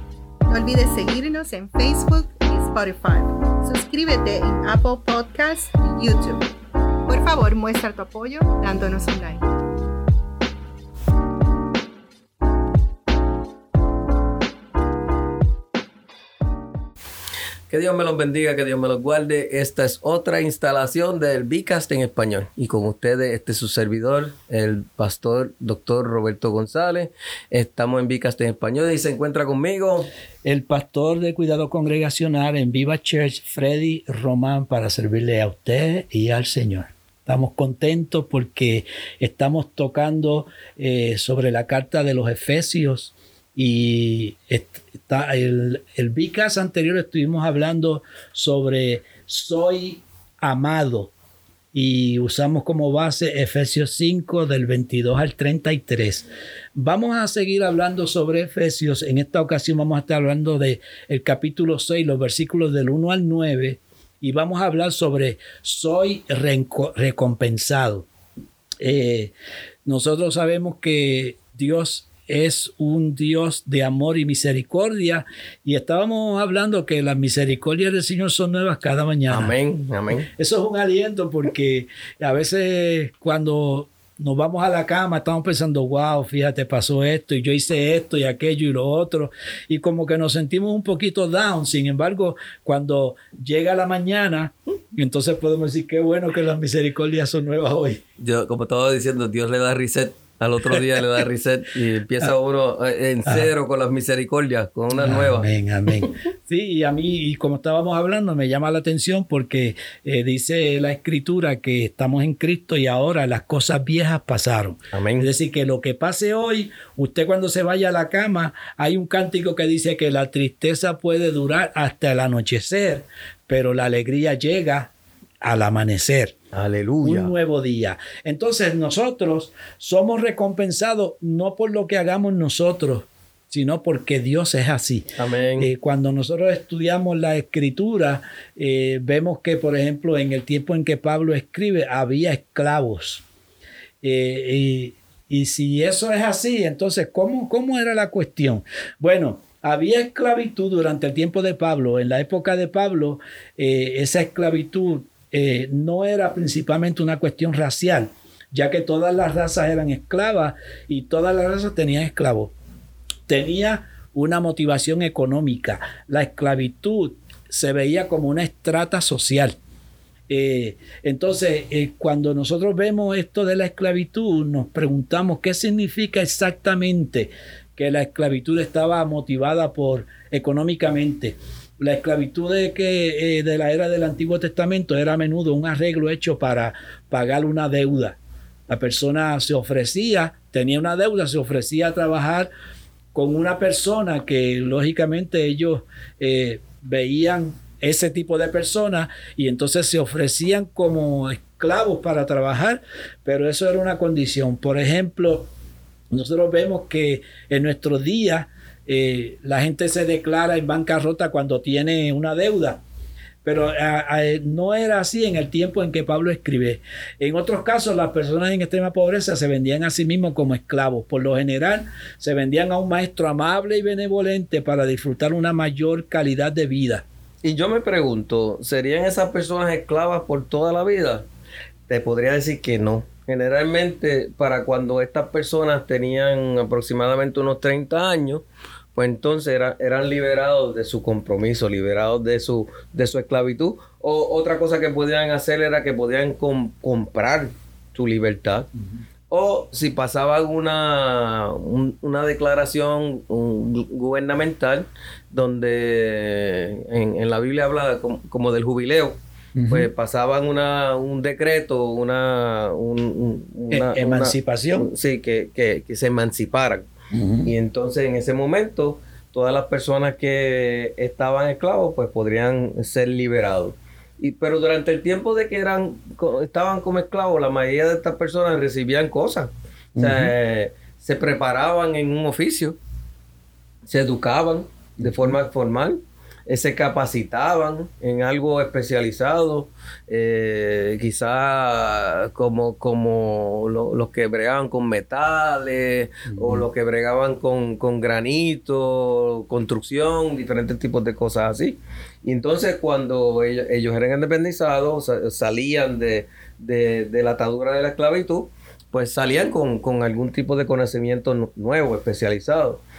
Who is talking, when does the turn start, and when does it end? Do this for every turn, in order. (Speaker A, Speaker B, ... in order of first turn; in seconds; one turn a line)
Speaker A: 0.5-6.5
Speaker A: 7.1-9.5
Speaker B: 17.7-30.1
Speaker C: 30.4-51.1
Speaker C: 51.7-68.1
Speaker C: 68.8-69.3
Speaker C: 69.8-79.6
Speaker B: 79.3-80.3
Speaker C: 80.3-98.0
Speaker B: 98.2-105.5
Speaker C: 104.9-126.4
Speaker B: 114.9-115.3
Speaker B: 126.5-127.3
Speaker C: 127.0-143.2
Speaker B: 135.2-135.7
Speaker C: 144.0-162.5
Speaker C: 163.3-169.6
Speaker C: 170.3-192.5
Speaker C: 193.1-205.5
Speaker C: 206.1-212.8
Speaker C: 213.4-227.1
Speaker B: 227.4-231.3
Speaker B: 231.9-248.7
Speaker B: 249.3-266.9
Speaker C: 259.6-259.9
Speaker C: 263.7-264.9
Speaker C: 267.1-267.5
Speaker B: 267.5-282.8
Speaker C: 280.0-280.3
Speaker B: 283.9-312.8
Speaker C: 285.1-285.3
Speaker C: 296.3-296.7